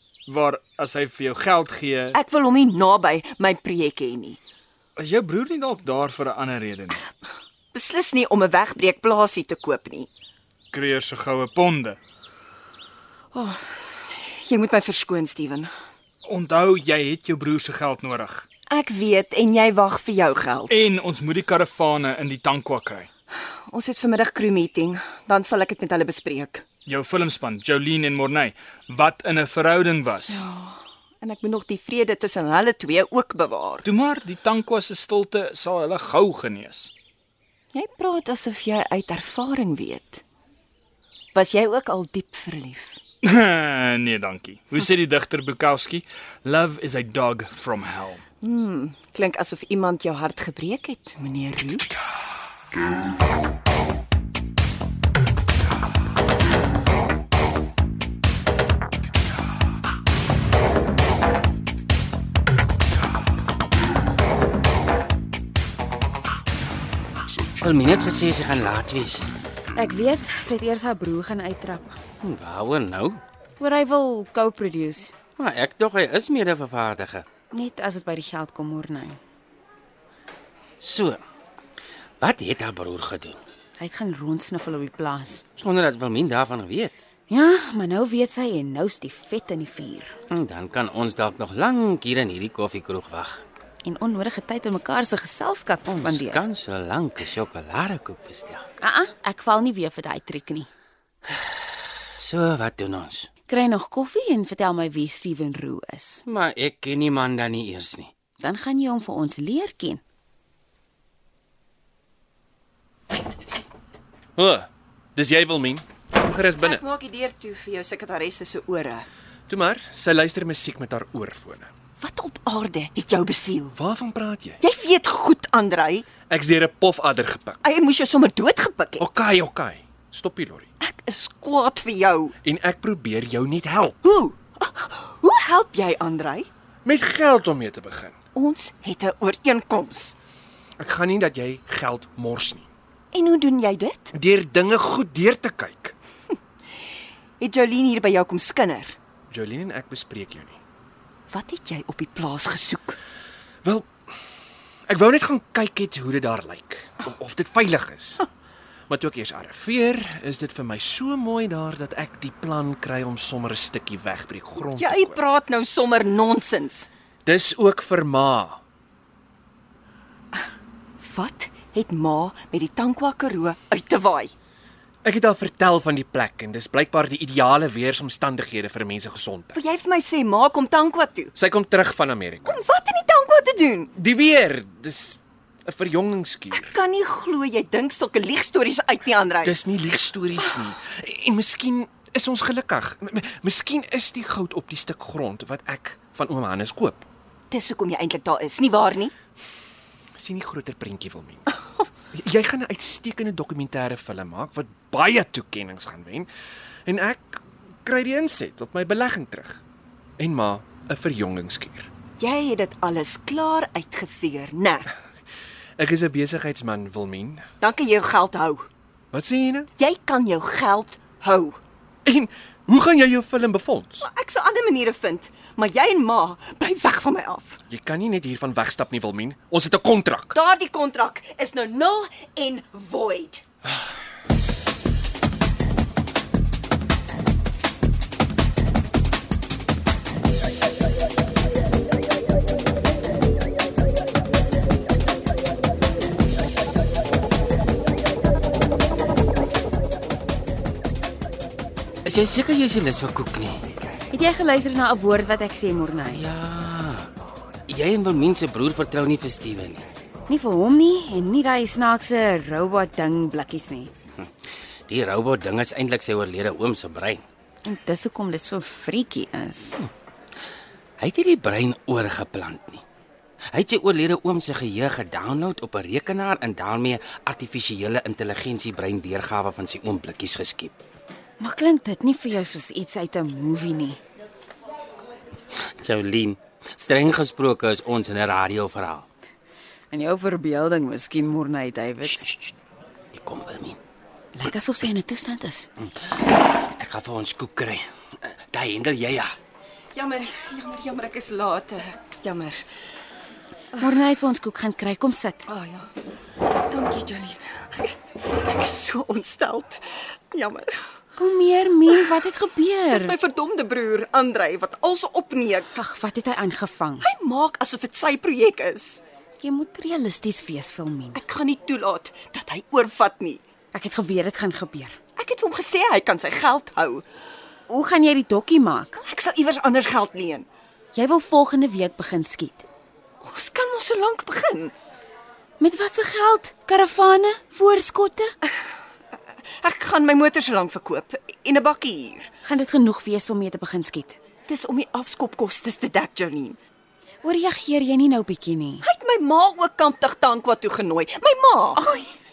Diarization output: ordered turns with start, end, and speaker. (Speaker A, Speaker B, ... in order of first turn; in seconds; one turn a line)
Speaker A: 0.3-2.2
Speaker B: 2.1-4.4
Speaker A: 5.0-7.1
Speaker B: 7.7-10.1
Speaker A: 10.7-12.0
Speaker B: 13.3-15.7
Speaker A: 16.2-18.4
Speaker B: 18.7-20.8
Speaker A: 20.7-23.1
Speaker B: 23.7-26.6
Speaker A: 26.9-30.4
Speaker B: 30.3-33.8
Speaker A: 33.8-36.9
Speaker B: 37.7-40.2
Speaker B: 41.3-43.0
Speaker A: 43.2-48.2
Speaker B: 48.4-51.9
Speaker C: 67.6-69.2
Speaker D: 69.7-72.0
Speaker C: 72.2-73.2
Speaker D: 73.6-75.1
Speaker C: 75.4-77.2
Speaker D: 77.5-79.2
Speaker C: 80.8-81.2
Speaker C: 82.2-83.4
Speaker D: 83.8-85.4
Speaker C: 85.6-86.9
Speaker D: 87.3-90.2
Speaker C: 90.3-93.4
Speaker D: 93.8-96.4
Speaker C: 95.8-98.6
Speaker D: 98.8-100.7
Speaker C: 102.2-103.3
Speaker D: 103.5-106.2
Speaker C: 106.3-108.1
Speaker D: 108.4-110.0
Speaker E: 114.3-116.8
Speaker B: 116.6-119.1
Speaker E: 119.5-121.7
Speaker B: 122.0-123.8
Speaker E: 123.7-124.6
Speaker B: 124.6-126.1
Speaker E: 126.3-127.6
Speaker B: 127.6-129.1
Speaker E: 129.0-130.7
Speaker B: 130.8-132.3
Speaker E: 132.4-134.0
Speaker B: 134.0-136.5
Speaker E: 136.8-138.1
Speaker B: 138.3-140.2
Speaker E: 140.8-142.7
Speaker B: 143.1-144.1
Speaker E: 144.1-145.9
Speaker B: 147.4-148.9
Speaker E: 149.3-150.6
Speaker B: 151.3-153.0
Speaker E: 154.9-158.2
Speaker E: 158.9-165.2
Speaker B: 164.7-166.9
Speaker E: 167.2-168.6
Speaker B: 171.0-174.3
Speaker E: 175.0-179.6
Speaker B: 179.5-181.3
Speaker E: 181.3-182.6
Speaker B: 182.4-183.9
Speaker E: 183.9-186.7
Speaker B: 186.5-189.6
Speaker E: 189.4-197.1
Speaker B: 197.5-199.1
Speaker E: 200.2-201.5
Speaker E: 202.1-206.3
Speaker E: 206.8-209.6
Speaker E: 210.2-211.9
Speaker B: 212.2-214.9
Speaker E: 215.8-217.4
Speaker B: 217.6-218.7
Speaker E: 219.1-219.7
Speaker B: 219.8-221.6
Speaker E: 222.0-224.1
Speaker B: 224.0-227.6
Speaker E: 227.7-230.4
Speaker B: 230.3-233.4
Speaker C: 252.0-253.6
Speaker D: 254.1-256.2
Speaker C: 256.1-257.1
Speaker C: 257.7-259.9
Speaker D: 260.3-263.9
Speaker C: 264.9-267.2
Speaker D: 267.6-269.8
Speaker C: 271.0-272.8
Speaker C: 273.5-280.8
Speaker D: 281.4-284.0
Speaker C: 285.7-289.1
Speaker D: 289.9-292.3
Speaker C: 293.1-293.8
Speaker D: 294.3-295.7
Speaker C: 296.8-299.3
Speaker B: 299.9-302.6
Speaker D: 303.8-305.5
Speaker B: 305.5-305.9
Speaker B: 306.7-310.7
Speaker D: 311.1-313.1
Speaker B: 312.9-315.7
Speaker D: 315.7-317.1
Speaker B: 317.0-319.0
Speaker D: 319.4-321.2
Speaker B: 321.1-323.4
Speaker D: 323.7-325.0
Speaker B: 325.2-327.0
Speaker D: 327.7-329.0
Speaker B: 329.0-330.5
Speaker D: 330.9-332.6
Speaker B: 333.2-334.7
Speaker D: 335.6-338.3
Speaker B: 339.5-342.3
Speaker D: 342.4-344.2
Speaker B: 344.5-346.6
Speaker D: 347.2-348.8
Speaker B: 348.8-351.8
Speaker D: 351.8-352.1